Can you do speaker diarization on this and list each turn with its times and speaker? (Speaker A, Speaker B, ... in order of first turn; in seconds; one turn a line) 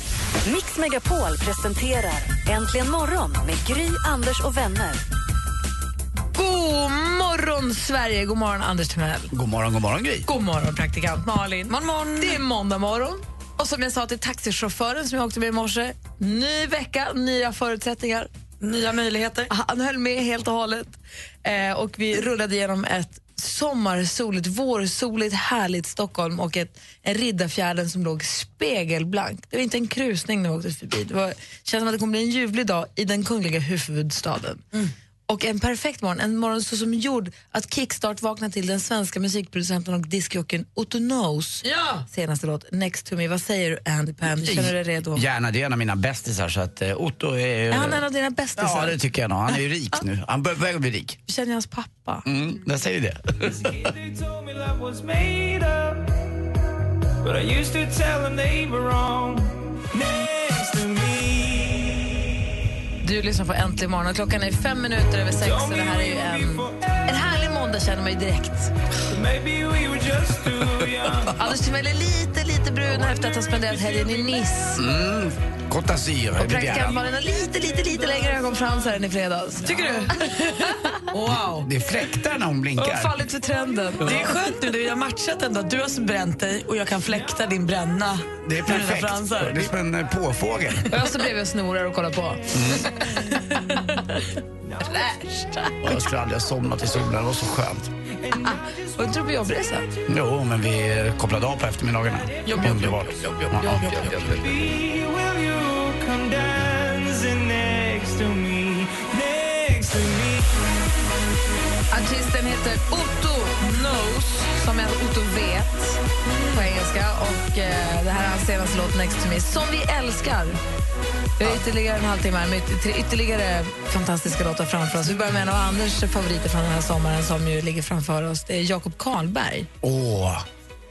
Speaker A: 0.5-5.0
Speaker B: 6.3-9.3
Speaker C: 9.3-10.3
Speaker B: 10.3-18.3
Speaker D: 11.7-12.4
Speaker D: 18.6-19.5
Speaker B: 19.5-34.6
Speaker B: 35.3-45.2
Speaker C: 44.3-48.0
Speaker B: 47.7-49.0
Speaker C: 48.6-51.2
Speaker B: 51.3-52.2
Speaker C: 52.2-53.7
Speaker E: 53.4-56.0
Speaker E: 57.2-62.2
Speaker B: 63.0-68.7
Speaker E: 65.3-66.9
Speaker E: 69.1-71.4
Speaker B: 71.3-74.8
Speaker E: 72.9-74.8
Speaker C: 74.8-77.0
Speaker B: 76.4-81.7
Speaker E: 76.9-80.1
Speaker D: 79.6-80.9
Speaker C: 81.2-83.2
Speaker B: 82.8-84.3
Speaker D: 84.0-89.7
Speaker C: 88.4-90.9
Speaker B: 90.9-94.2
Speaker C: 92.5-93.0
Speaker B: 94.8-95.9
Speaker C: 95.8-97.9
Speaker E: 98.3-98.8
Speaker B: 98.4-99.9
Speaker C: 100.1-104.7
Speaker D: 102.5-104.5
Speaker E: 104.5-110.5
Speaker B: 111.9-120.6
Speaker D: 116.2-116.7
Speaker B: 121.4-129.7
Speaker C: 129.8-130.4